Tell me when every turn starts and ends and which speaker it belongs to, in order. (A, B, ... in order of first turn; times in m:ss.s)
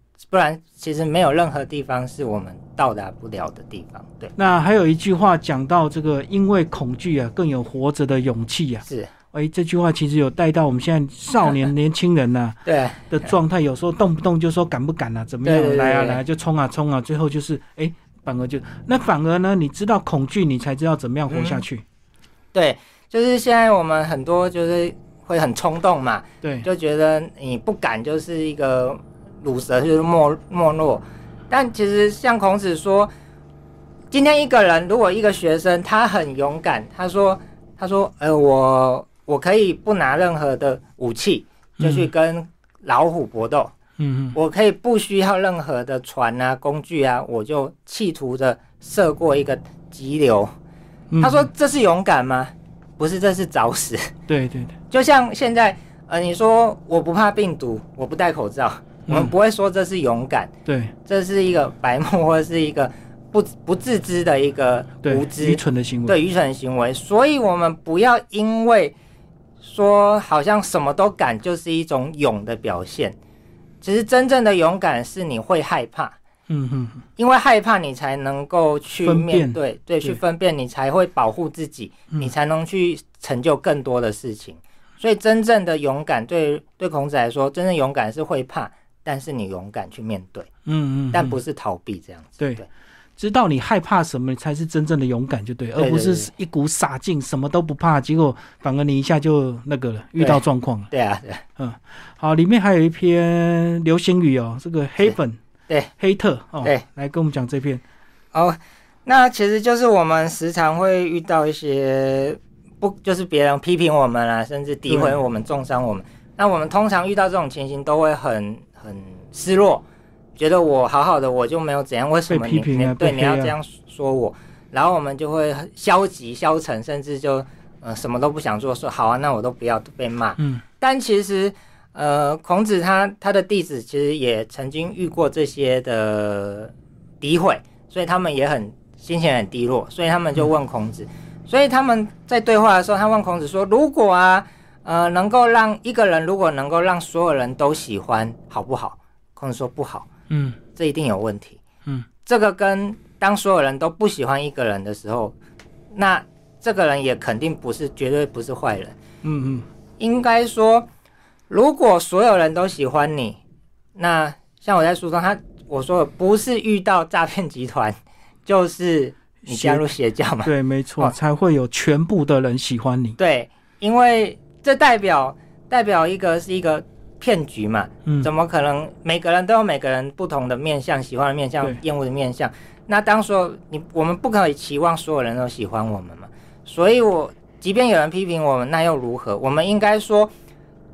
0:00.2-0:04.3 A
0:04.4-0:12.6 B
0:08.9-0:09.1 A
0:12.6-0:13.3 A
0:13.1-0:21.8 B
0:15.4-0:16.2 A
0:21.3-0:21.6 A
0:22.5-0:33.1 A
0:26.4-0:26.7 B
0:34.1-0:43.8 A
0:41.8-0:42.1 B
0:44.0-0:44.4 B
0:44.3-0:50.5 A
0:51.1-0:51.5 B
0:51.2-0:54.1 A
0:54.3-0:54.8 B
0:54.9-1:00.5 A
0:59.1-0:59.3 B
1:00.7-1:00.9 B
1:01.1-1:09.0 A
1:05.0-1:06.2 B
1:09.6-1:13.2 A
1:13.8-1:16.2 A
1:16.5-1:17.0 B
1:17.2-1:30.5 A
1:19.0-1:20.2 B
1:30.7-1:31.4 B
1:31.1-1:32.7 A
1:32.4-1:32.6 B
1:33.2-1:40.9 B
1:35.8-1:36.3 A
1:40.2-1:41.4 A
1:41.6-1:45.4 B
1:46.0-1:47.8 B
1:48.3-1:59.8 A
1:54.9-1:55.2 B
2:00.4-2:30.1 A
2:02.3-2:03.6 B
2:30.3-2:30.6 B
2:30.8-2:31.6 A
2:32.3-2:35.4 A
2:35.9-2:39.0 A
2:39.2-2:39.7 B
2:40.0-2:40.9 A
2:41.5-2:43.4 A
2:44.0-2:51.2 A
2:49.4-2:49.8 B
2:50.4-2:53.2 B
2:53.2-3:10.3 A